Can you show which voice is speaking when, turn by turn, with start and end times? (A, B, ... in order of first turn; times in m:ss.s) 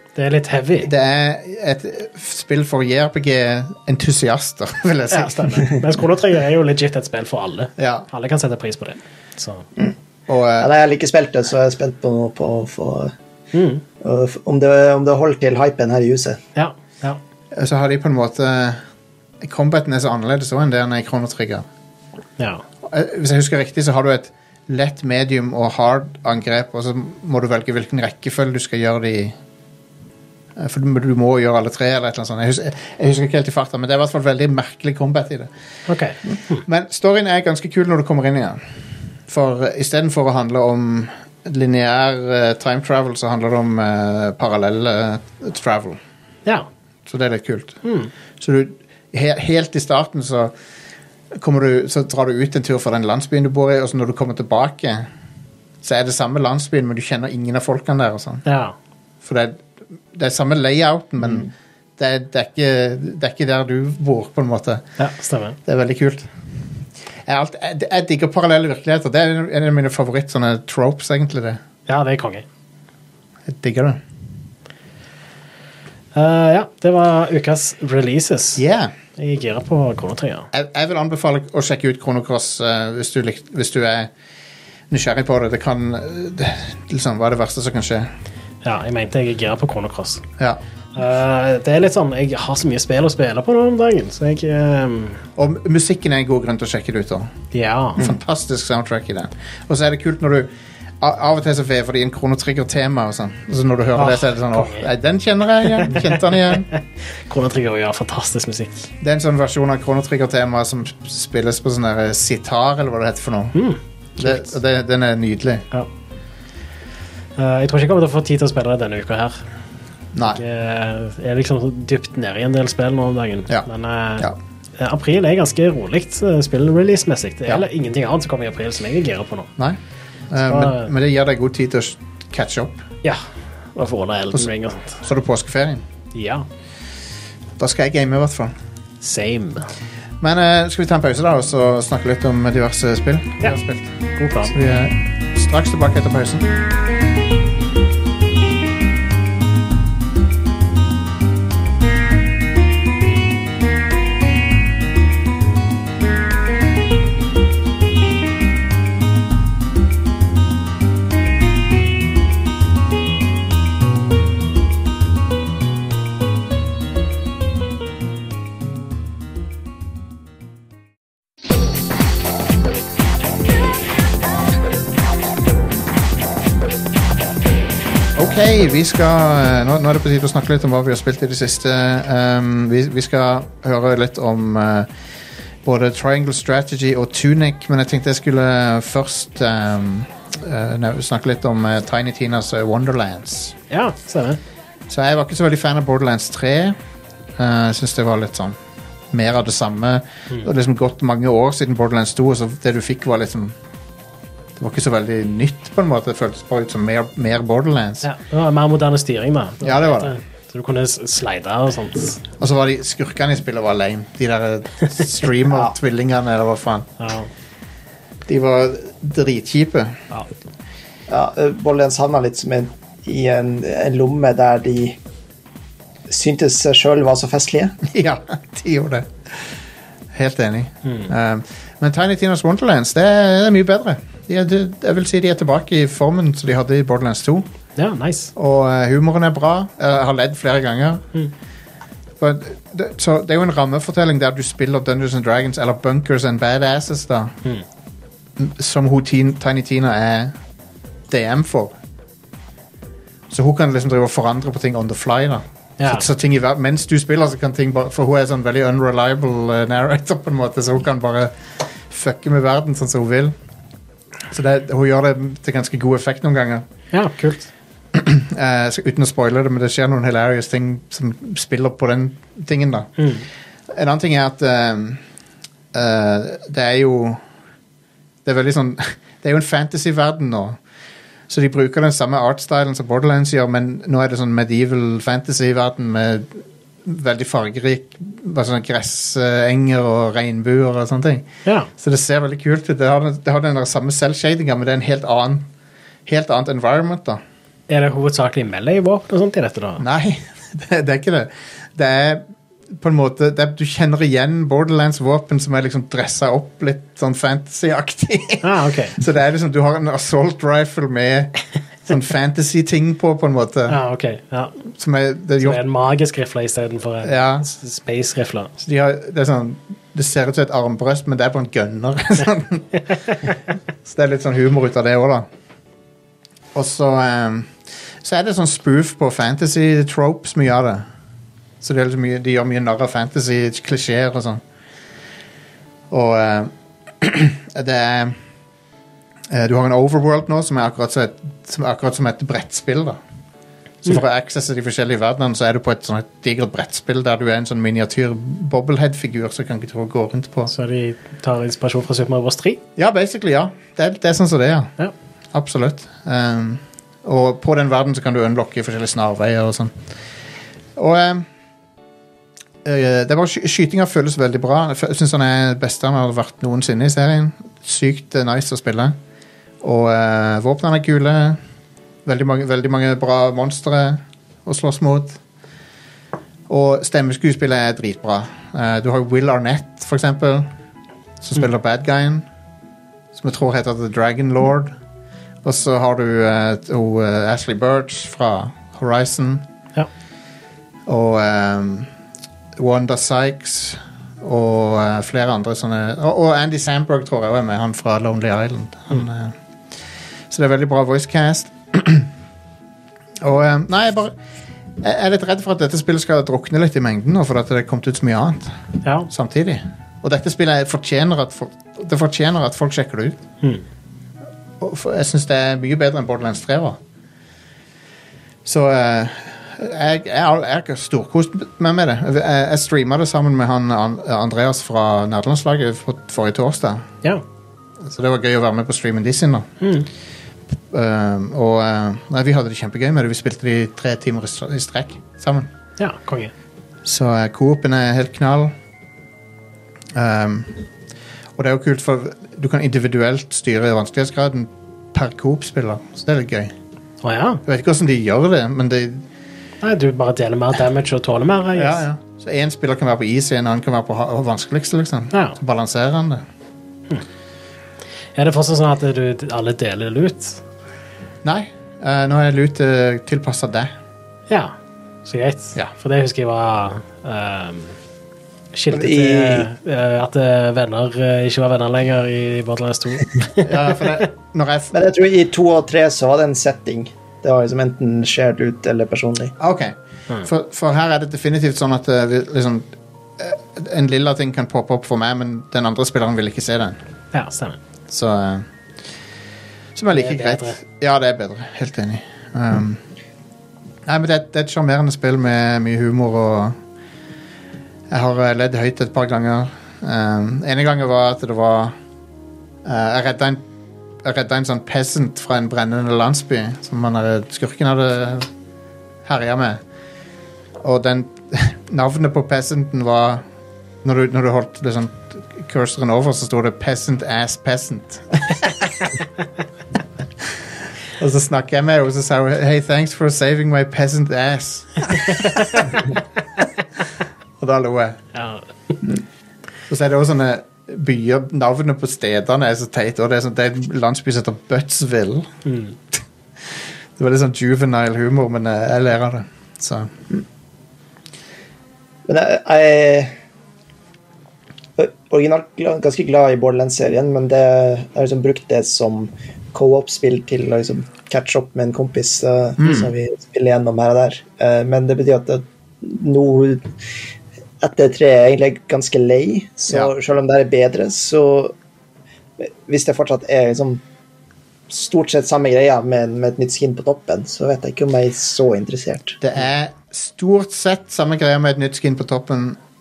0:00.2-0:00.9 A
0:00.8-0:05.6 B
0:05.1-0:09.6 A
0:07.8-0:08.0 B
0:10.3-0:10.7 B
0:10.6-0:13.1 C
0:13.5-0:13.8 A
0:14.0-0:16.4 C
0:16.5-0:17.2 A
0:17.5-0:18.8 B
0:19.4-0:21.6 B
0:22.4-0:22.6 A
0:22.8-0:29.4 B
0:30.6-0:35.5 B
0:35.9-0:36.6 A
0:36.6-0:38.6 B
0:39.3-0:46.0 B
0:47.0-0:47.8 B
0:47.8-0:48.1 A
0:48.4-0:50.5 B
0:51.3-0:55.1 B
0:55.8-0:58.4 B
0:58.4-0:58.7 A
0:59.2-1:04.8 B
1:05.0-1:05.6 A
1:05.6-1:06.3 B
1:07.2-1:11.6 B
1:11.9-1:12.4 A
1:13.5-1:14.0 B
1:16.1-1:18.6 A
1:18.6-1:18.9 B
1:19.2-1:20.5 A
1:20.5-1:24.1 B
1:24.9-1:28.1 B
1:28.6-1:30.2 A
1:30.9-1:35.2 A
1:35.4-1:37.3 B
1:37.5-1:38.1 A
1:38.0-1:46.7 B
1:44.0-1:44.9 A
1:45.8-1:48.7 A
1:49.0-1:53.6 B
1:53.5-1:54.5 A
1:54.2-1:55.6 B
1:57.4-1:59.4 A
2:00.1-2:00.4 B
2:00.3-2:09.5 A
2:10.3-2:12.8 B
2:10.4-2:10.9 A
2:13.7-2:15.0 A
2:15.0-2:15.8 B
2:16.1-2:16.4 A
2:17.6-2:18.5 B
2:19.0-2:19.7 A
2:20.2-2:26.5 B
2:24.2-2:24.5 A
2:58.2-3:04.9 B
3:05.6-3:13.5 B
3:13.7-3:14.4 A
3:14.9-3:16.8 B
3:17.4-3:18.6 B
3:19.1-3:23.5 B
3:24.6-3:28.0 B
3:28.0-3:32.2 A
3:29.6-3:30.1 B
3:32.4-3:36.9 B
3:37.0-3:37.3 A
3:38.3-3:40.0 B
3:41.1-3:45.0 C
3:46.1-3:47.8 C
3:47.9-3:49.1 B
3:50.1-3:57.5 B
3:50.8-3:51.1 A
3:57.8-3:58.3 A
3:58.4-4:01.0 B
4:02.2-4:07.3 B
4:08.4-4:10.3 B
4:11.1-4:11.8 B
4:13.3-4:21.3 B
4:15.8-4:16.0 A
4:21.9-4:23.3 B
4:24.3-4:26.6 B
4:26.9-4:27.5 A
4:27.9-4:33.0 B
4:33.0-4:33.2 A
4:33.7-4:35.0 B
4:35.7-4:37.2 B
4:38.2-4:40.6 B
4:41.3-4:51.2 B
4:51.4-4:51.7 A
4:51.8-4:55.4 B
4:56.0-4:57.2 B
4:57.7-4:59.8 A
4:59.8-5:11.3 B
5:08.4-5:09.0 A
5:11.9-5:13.8 B
5:13.7-5:14.5 A
5:14.7-5:15.6 B
5:15.4-5:18.5 A
5:17.0-5:17.5 B
5:18.6-5:22.7 B
5:23.8-5:25.3 B
5:26.5-5:30.9 B
5:31.6-5:34.4 B
5:35.9-5:38.2 B
5:39.3-5:43.0 B
5:43.8-5:50.5 B
5:50.5-5:52.6 A
5:52.8-5:54.7 B
5:55.3-5:59.7 B
6:00.8-6:01.2 B
6:02.6-6:09.0 B
6:09.6-6:11.4 B
6:12.0-6:15.2 B
6:16.5-6:20.5 B
6:21.2-6:22.2 B
6:23.1-6:24.7 B
6:25.4-6:29.4 B
6:30.9-6:31.9 B
6:32.6-6:39.3 B
6:40.3-6:42.1 B
6:43.2-6:44.1 B
6:44.8-6:48.6 B
6:48.8-6:49.1 A
6:49.1-6:53.2 B
6:54.6-6:56.8 B
6:58.4-7:06.9 B
7:07.8-7:09.5 B
7:09.6-7:09.9 A
7:10.7-7:15.5 B
7:15.8-7:16.3 A
7:16.8-7:18.5 B
7:19.9-7:20.6 B
7:21.4-7:26.5 B
7:27.0-7:27.4 A
7:27.4-7:29.0 B
7:29.6-7:31.8 A
7:31.5-7:36.2 B
7:35.1-7:35.4 A
7:38.1-7:40.4 A
7:41.2-7:43.7 B
7:44.3-7:44.5 A
7:45.0-7:47.8 A
7:48.5-7:54.1 A
7:48.7-7:49.5 C
7:53.4-7:54.7 B
7:54.7-7:59.3 C
7:59.4-8:06.8 B
8:07.1-8:07.6 A
8:07.9-8:08.5 B
8:09.7-8:12.8 B
8:09.9-8:10.6 A
8:13.8-8:16.6 B
8:17.9-8:21.7 B
8:22.6-8:23.4 B
8:24.0-8:28.3 B
8:29.0-8:29.6 B
8:30.6-8:33.2 B
8:33.8-8:38.5 B
8:41.0-8:45.9 B
8:45.0-8:45.7 A
8:47.4-8:48.0 B
8:48.1-8:48.4 A
8:49.7-8:55.3 B
8:55.4-8:55.8 A
8:57.0-8:59.9 B
9:02.1-9:03.1 C
9:04.8-9:16.7 C
9:12.6-9:12.9 B
9:17.6-9:21.5 C
9:19.7-9:19.9 B
9:22.4-9:23.8 C
9:24.7-9:29.2 C
9:29.2-9:32.6 B